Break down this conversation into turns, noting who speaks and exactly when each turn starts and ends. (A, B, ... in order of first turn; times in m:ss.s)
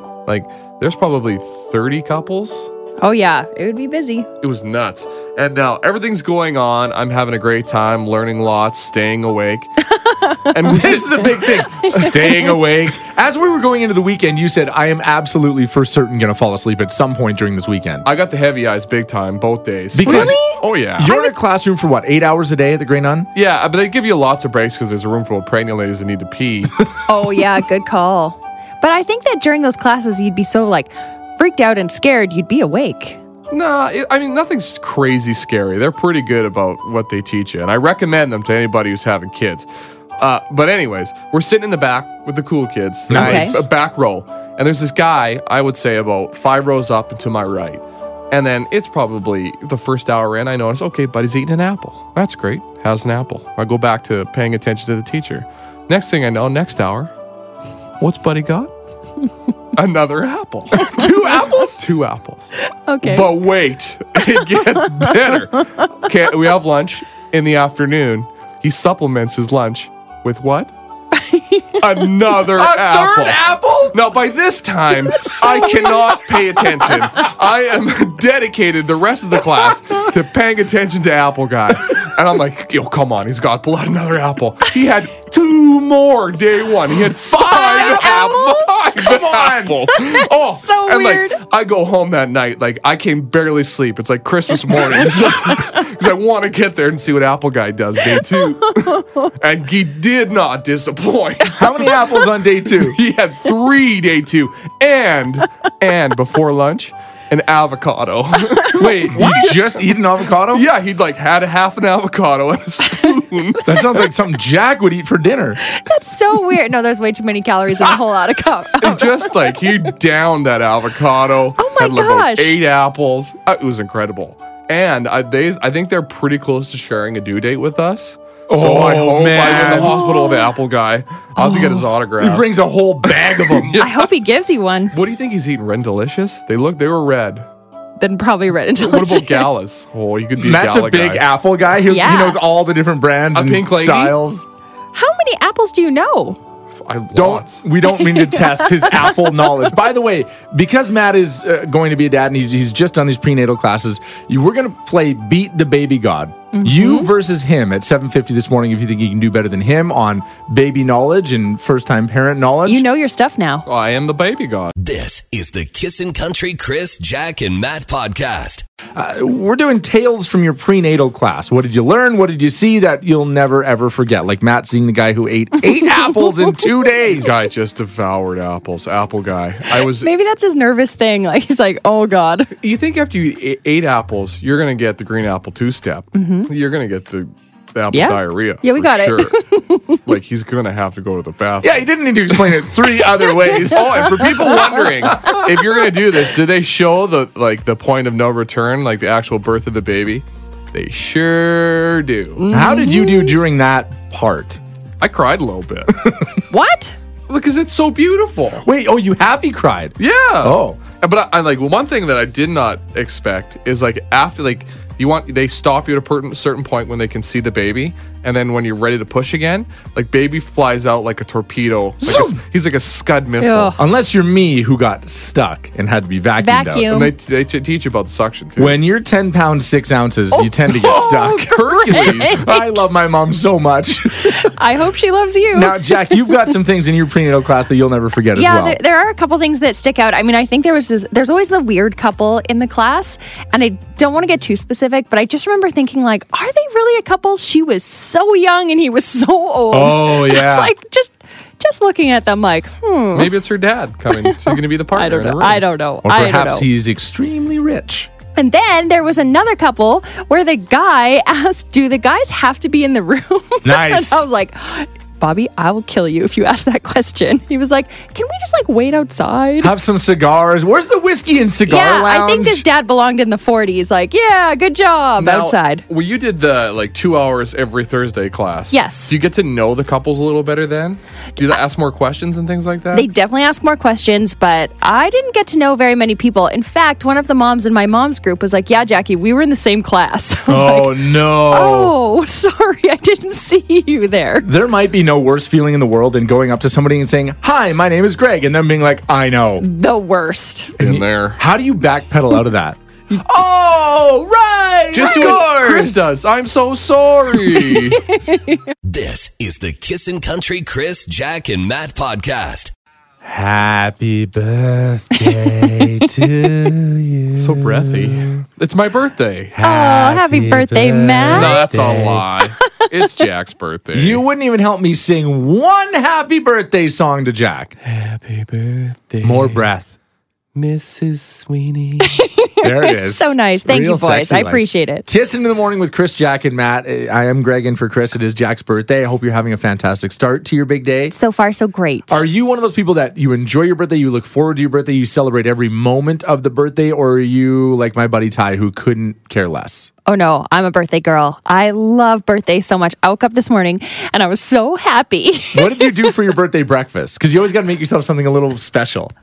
0:00.3-0:02.7 A
0:03.0-0:04.3 B
0:04.4-0:09.9 A
0:10.1-0:10.5 B
0:10.5-0:12.0 A
0:10.6-0:18.1 C
0:18.0-0:21.1 A
0:20.0-0:20.4 C
0:20.0-0:21.3 B
0:21.0-0:23.3 C
0:23.3-0:26.9 A
0:27.1-0:33.2 B
0:33.5-0:39.7 A
0:40.2-0:57.1 A
0:43.1-0:43.7 C
0:43.1-0:43.6 B
0:58.0-0:58.7 A
0:59.7-1:10.7 A
1:00.8-1:01.6 B
1:00.9-1:01.8 C
1:02.7-1:03.3 B
1:04.5-1:05.1 B
1:11.2-1:12.0 B
1:11.8-1:42.0 A
1:12.5-1:14.0 C
1:15.2-1:16.0 B
1:27.0-1:29.8 C
1:27.5-1:28.9 B
1:30.0-1:31.4 B
1:41.5-1:43.0 C
1:42.8-1:49.6 A
1:48.7-1:50.7 C
1:50.5-1:54.0 A
1:53.6-1:55.6 C
1:55.7-1:59.6 B
1:58.8-2:12.5 A
2:01.6-2:02.6 B
2:08.5-2:10.0 C
2:09.8-2:10.5 B
2:11.4-2:11.8 B
2:12.2-2:13.8 C
2:13.0-2:14.1 A
2:13.8-2:14.9 B
2:14.9-2:17.4 A
2:18.0-2:19.5 B
2:18.8-2:21.3 A
2:20.4-2:24.5 C
2:21.9-2:22.4 B
2:23.3-2:24.2 A
2:24.9-2:26.4 B
2:26.8-2:27.6 A
2:27.1-2:42.8 C
2:28.1-2:29.0 B
2:36.5-2:37.1 B
2:42.6-2:43.6 B
2:43.7-2:44.8 A
2:44.8-2:48.6 D
2:49.0-2:57.4 C
2:57.1-3:00.1 A
2:59.8-3:02.5 B
3:02.6-3:11.9 A
3:06.1-3:06.5 B
3:07.9-3:10.0 B
3:11.6-3:14.2 C
3:13.5-3:13.8 B
3:13.7-3:22.4 A
3:14.5-3:15.4 B
3:22.4-3:23.4 B
3:22.5-3:24.6 C
3:25.0-3:26.0 A
3:26.0-3:26.3 C
3:26.5-3:27.0 B
3:27.3-3:28.7 A
3:28.6-3:30.8 C
3:30.0-3:43.8 A
3:42.0-3:42.4 C
3:43.4-3:43.8 B
3:43.8-3:46.9 C
3:46.4-3:47.1 B
3:46.9-3:48.8 A
3:48.6-3:54.5 C
3:50.3-3:51.4 B
3:50.8-3:52.4 A
3:52.0-3:52.7 B
3:54.2-3:56.4 B
3:55.5-3:58.8 C
3:58.4-4:13.3 B
4:09.7-4:10.7 C
4:13.1-4:15.6 A
4:14.2-4:16.7 B
4:16.0-4:18.1 C
4:18.4-4:29.7 B
4:23.6-4:24.3 C
4:29.6-4:32.6 C
4:31.7-4:35.8 B
4:35.2-4:43.1 A
4:38.7-4:39.1 B
4:42.9-4:54.5 B
4:50.5-4:52.0 C
4:54.4-4:59.7 C
4:59.6-5:00.7 B
5:00.8-5:06.1 C
5:00.8-5:01.4 A
5:04.9-5:08.0 A
5:05.1-5:05.4 B
5:08.1-5:08.6 B
5:08.8-5:12.7 D
5:13.2-5:18.4 C
5:17.4-5:19.6 A
5:19.5-5:22.2 C
5:19.6-5:22.1 B
5:21.3-5:24.2 A
5:23.9-5:27.8 C
5:27.8-5:29.6 A
5:29.2-5:29.9 C
5:30.6-5:32.2 A
5:32.1-5:35.1 B
5:32.6-5:41.1 C
5:41.1-5:42.2 B
5:42.1-5:49.9 C
5:50.1-5:56.2 B
5:55.5-5:59.1 C